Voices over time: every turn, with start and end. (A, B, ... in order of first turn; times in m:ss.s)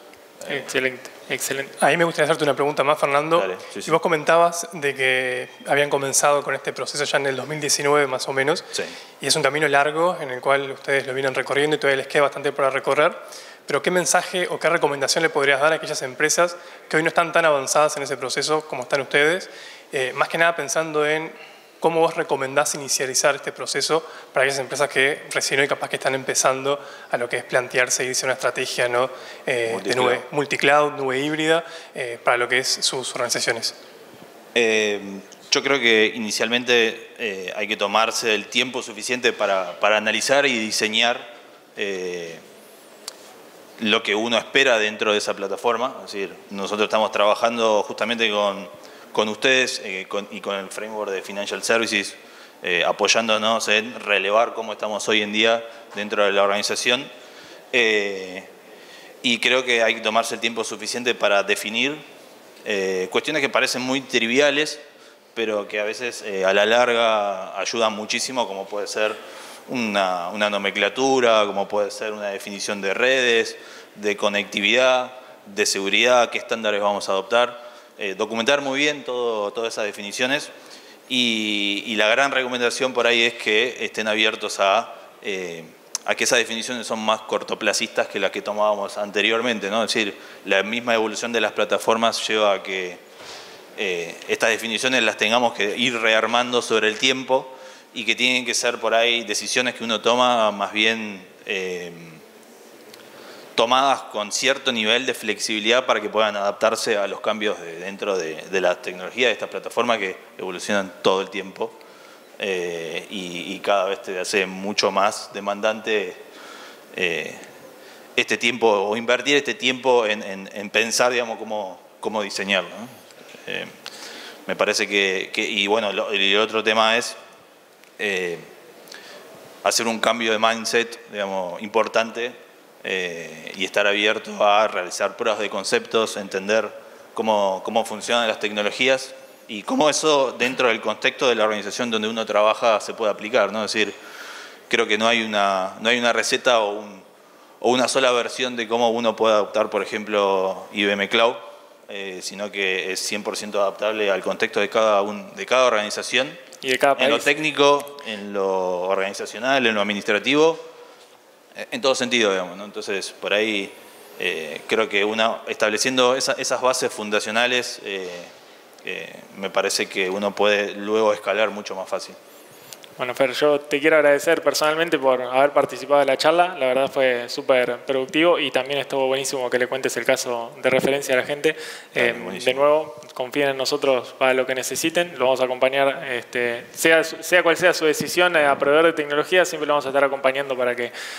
0:00.4-0:00.7 A
0:00.5-0:01.7 B
0:01.8-0:33.8 C
0:03.4-0:04.0 A
0:29.7-0:30.2 A
0:34.5-0:42.4 A
0:43.8-0:57.1 A
0:57.7-0:58.5 A
0:59.2-1:02.0 A
1:02.6-1:04.8 A
1:05.4-1:20.5 A
1:21.1-1:33.0 A
1:33.8-1:42.2 A
1:43.6-1:51.8 A
1:52.4-1:56.2 A
1:56.9-1:57.5 A
1:58.2-2:03.8 A
2:04.5-2:07.2 A
2:08.0-2:08.5 A
2:09.6-2:24.0 A
2:24.7-2:27.0 A
2:27.6-2:36.4 A
2:36.6-2:37.3 B
2:37.0-2:40.7 A
2:41.6-2:48.3 A
2:48.8-2:52.2 A
2:53.0-3:10.9 B
3:02.0-3:02.7 A